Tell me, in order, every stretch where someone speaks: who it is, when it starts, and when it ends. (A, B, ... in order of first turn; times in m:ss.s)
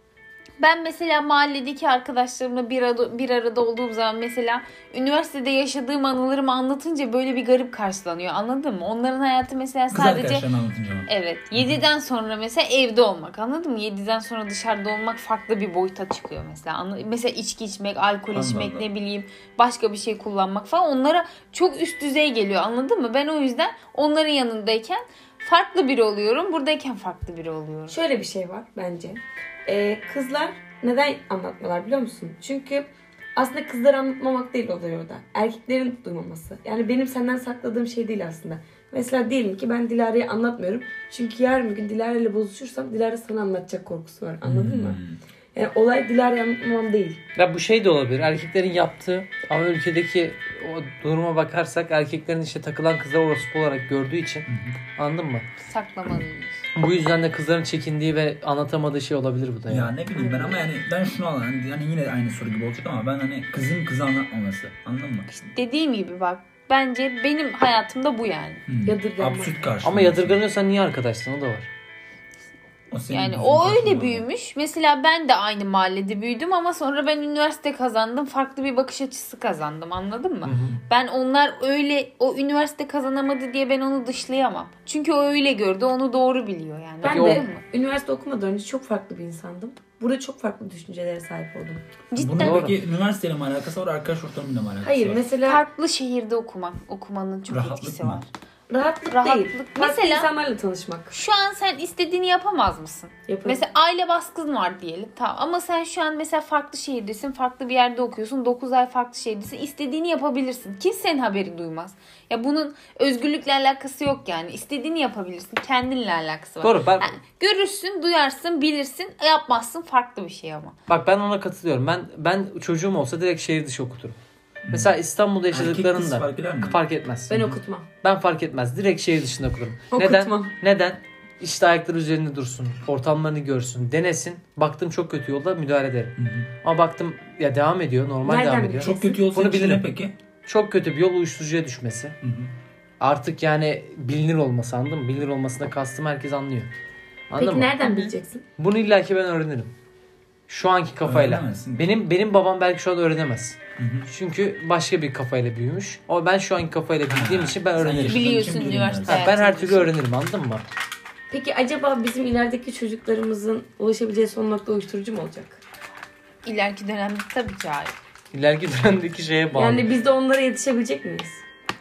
0:00.6-0:10.5 A
0:09.9-0:11.8 B
0:11.1-0:28.0 A
0:18.3-0:18.8 B
0:27.9-0:45.0 C
0:44.4-0:45.2 B
0:45.5-0:47.2 C
0:47.4-0:55.4 D
0:54.5-0:54.8 B
0:55.6-0:56.6 A
0:56.7-0:59.9 D
0:59.7-1:05.3 B
1:00.1-1:00.7 C
1:05.3-1:08.6 A
1:08.7-1:10.4 B
1:08.8-1:09.6 C
1:09.8-1:11.7 D
1:12.9-1:14.2 B
1:13.1-1:27.6 A
1:20.4-1:20.7 B
1:20.5-1:20.7 D
1:27.0-1:31.8 C
1:27.0-1:27.4 D
1:32.1-1:32.7 A
1:32.2-1:35.2 B
1:32.4-1:32.7 D
1:34.8-1:35.6 C
1:35.4-1:38.3 A
1:37.5-1:38.2 B
1:38.7-1:41.1 C
1:39.1-1:40.3 A
1:41.1-2:00.7 A
1:43.3-1:43.6 C
1:56.6-1:57.1 D
2:00.9-2:04.2 D
2:04.6-2:05.0 B
2:04.7-2:19.8 D
2:05.5-2:06.8 B
2:07.3-2:07.9 C
2:09.9-2:10.5 C
2:16.2-2:16.5 B
2:18.2-2:19.2 C
2:18.8-2:20.1 B
2:20.4-2:22.1 D
2:22.2-2:22.5 B
2:23.0-2:26.7 D
2:27.3-2:27.7 D
2:27.4-2:28.4 C
2:27.8-2:28.1 A
2:28.6-2:29.7 D
2:30.5-2:33.6 D
2:31.0-2:31.9 B
2:33.8-2:34.1 B
2:34.1-2:38.3 D
2:37.1-2:39.3 B
2:38.0-2:39.9 A
2:39.0-2:40.6 D
2:41.3-2:45.6 C
2:46.4-2:47.9 A
2:48.3-2:49.8 D
2:49.5-2:51.4 C